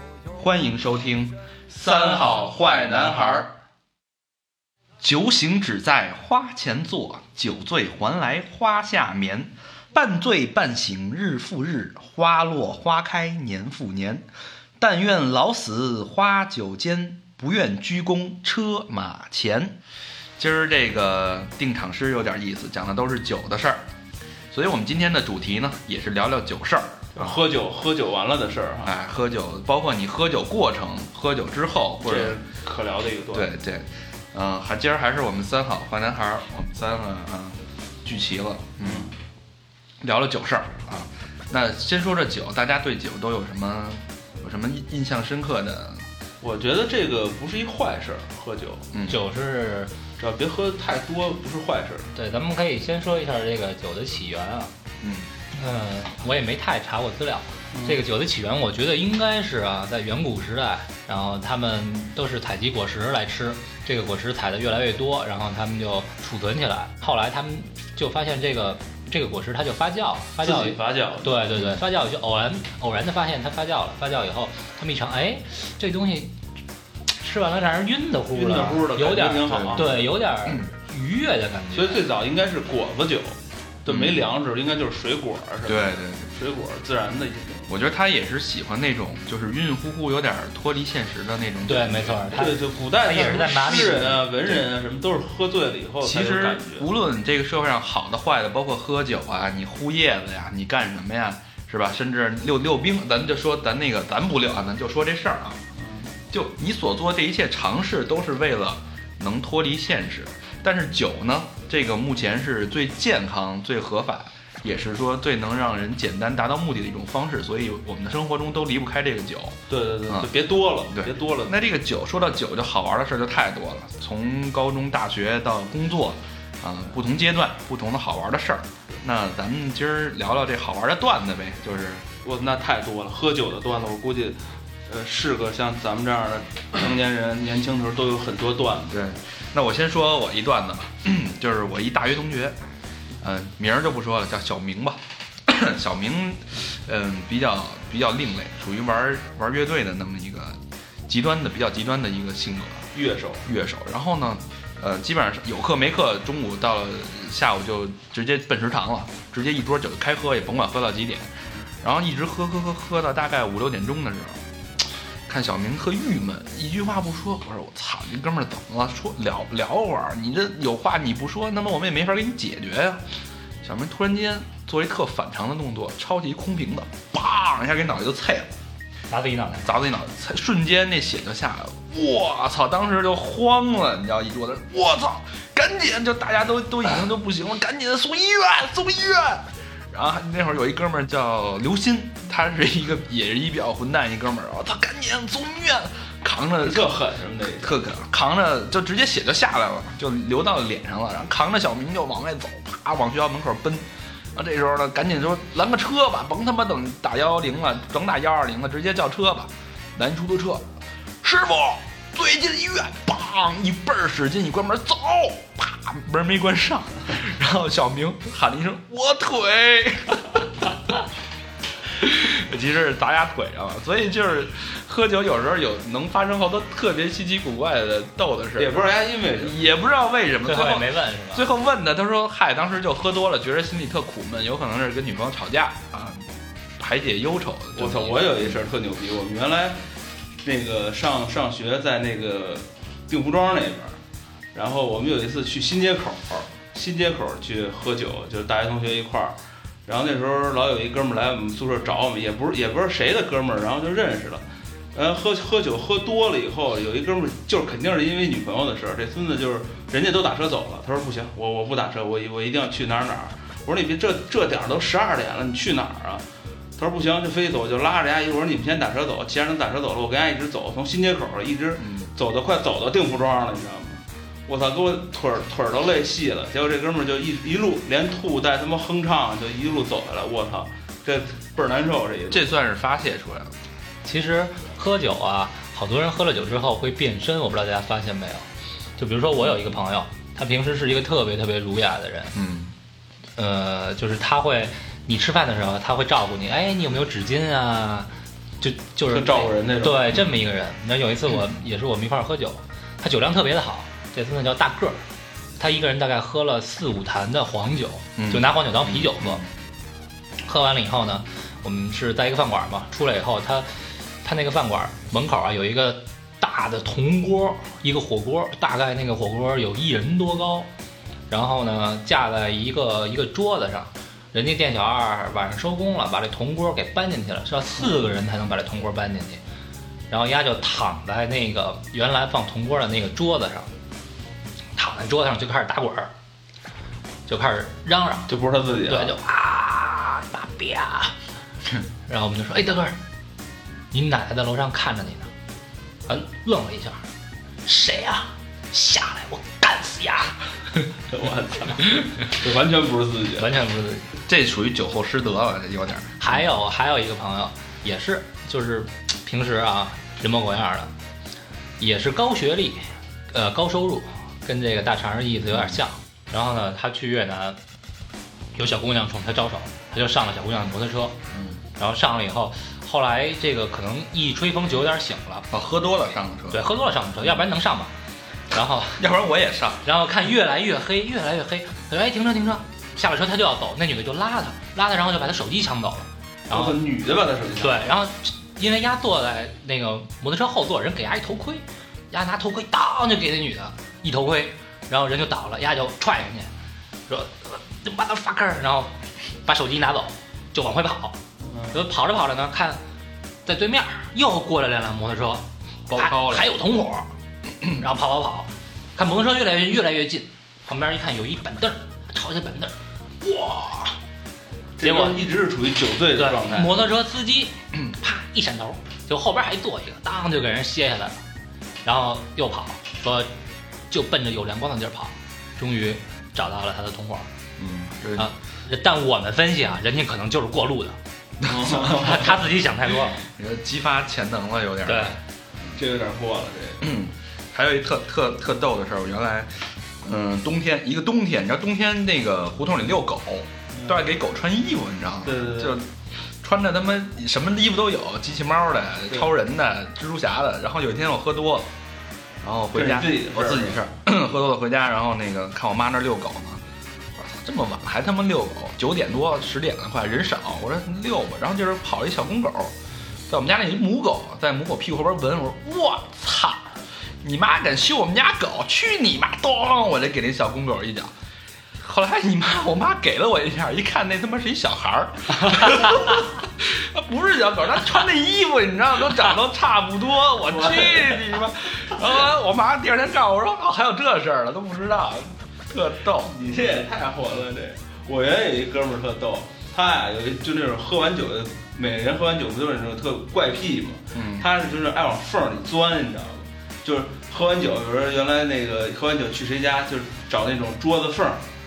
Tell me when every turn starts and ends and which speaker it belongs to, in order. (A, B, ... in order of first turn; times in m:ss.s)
0:00.3-0:03.5 A
0:01.7-0:03.5 B
0:05.0-0:14.3 A
0:14.8-0:19.8 A
0:20.4-0:23.8 A
0:24.5-0:27.4 A
0:27.1-0:28.9 B
0:28.8-0:32.4 A
0:32.0-0:33.5 B
0:33.3-0:39.1 A
0:38.8-0:39.1 B
0:40.0-0:46.1 A
0:46.4-0:48.9 B
0:48.9-0:49.2 A
0:49.1-0:49.9 C
0:50.2-0:52.1 B
0:52.1-0:54.7 C
0:55.0-0:55.3 A
0:55.5-1:16.3 C
0:57.7-0:58.0 B
1:10.4-1:11.4 B
1:11.5-1:11.8 A
1:17.2-1:22.0 C
1:18.3-1:20.0 B
1:19.5-1:20.7 A
1:21.7-1:27.7 B
1:23.9-1:24.3 A
1:25.7-1:26.3 A
1:27.7-1:32.4 A
1:31.6-1:34.3 C
1:32.3-1:36.9 B
1:36.0-1:45.6 A
1:45.8-1:46.1 B
1:46.3-2:00.3 A
1:59.7-2:01.6 B
2:00.9-2:12.0 A
2:12.2-2:19.0 B
2:18.9-2:22.6 A
2:23.2-2:32.9 A
2:32.9-2:33.4 B
2:33.4-2:41.3 A
2:41.8-2:44.4 A
2:45.3-2:53.0 A
2:53.6-2:58.5 A
2:59.1-2:59.8 C
2:59.6-3:16.9 A
3:16.6-3:17.8 B
3:17.6-3:30.6 A
3:31.2-3:40.5 A
3:41.9-3:48.8 A
3:48.6-3:49.6 B
3:49.4-3:58.6 A
3:50.4-3:51.5 C
3:57.8-3:59.8 B
4:00.4-4:04.0 B
4:04.5-4:26.2 B
4:26.8-4:42.4 B
4:31.8-4:32.1 A
4:42.3-4:43.5 A
4:44.0-4:48.4 C
4:49.0-4:52.3 C
4:52.3-4:52.8 A
4:53.4-4:58.1 C
4:58.6-5:05.0 C
4:59.1-5:00.1 B
5:05.6-5:09.4 C
5:08.2-5:09.5 A
5:10.4-5:20.7 C
5:21.3-5:29.4 C
5:30.1-5:33.7 C
5:34.8-5:36.1 C
5:37.3-5:38.3 C
5:38.3-5:39.2 B
5:38.8-5:41.2 C
5:42.0-5:43.0 C
5:43.9-5:45.3 C
5:46.1-5:47.0 C
5:47.6-5:50.4 C
5:51.1-5:53.5 B
5:53.4-5:54.2 C
5:54.2-5:56.4 A
5:56.2-6:00.9 C
6:01.8-6:07.6 C
6:05.5-6:05.8 A
6:08.5-6:11.1 C
6:11.3-6:11.6 A
6:11.8-6:15.5 C
6:15.5-6:16.6 A
6:16.5-6:17.9 C
6:18.5-6:19.1 C
6:19.0-6:19.8 A
6:19.8-6:26.8 C
6:26.5-6:27.9 B
6:27.6-6:36.5 C
6:37.1-6:41.2 C
6:41.4-6:41.8 B
6:41.7-6:42.8 C
6:43.4-6:47.1 C
6:45.9-6:46.5 A
6:47.7-6:54.0 C
6:54.8-6:56.8 B
6:54.8-6:55.2 C
6:56.1-7:01.2 C
7:01.8-7:03.3 C
7:03.9-7:07.3 C
7:07.6-7:08.3 A
7:08.2-7:11.0 C
7:11.4-7:12.4 A
7:11.4-7:12.4 B
7:11.8-7:13.2 C
7:13.4-7:15.2 A
7:14.8-7:15.2 C
7:15.8-7:16.8 B
7:16.8-7:25.9 A
7:23.7-7:24.1 B
7:25.2-7:25.8 B
7:26.4-7:31.7 A
7:32.4-7:36.6 A
7:32.7-7:33.8 B
7:37.2-7:42.7 A
7:43.3-7:46.7 A
7:47.2-7:51.1 A
7:51.8-8:06.4 A
8:00.4-8:01.4 B
8:06.2-8:21.4 B
8:14.1-8:14.5 A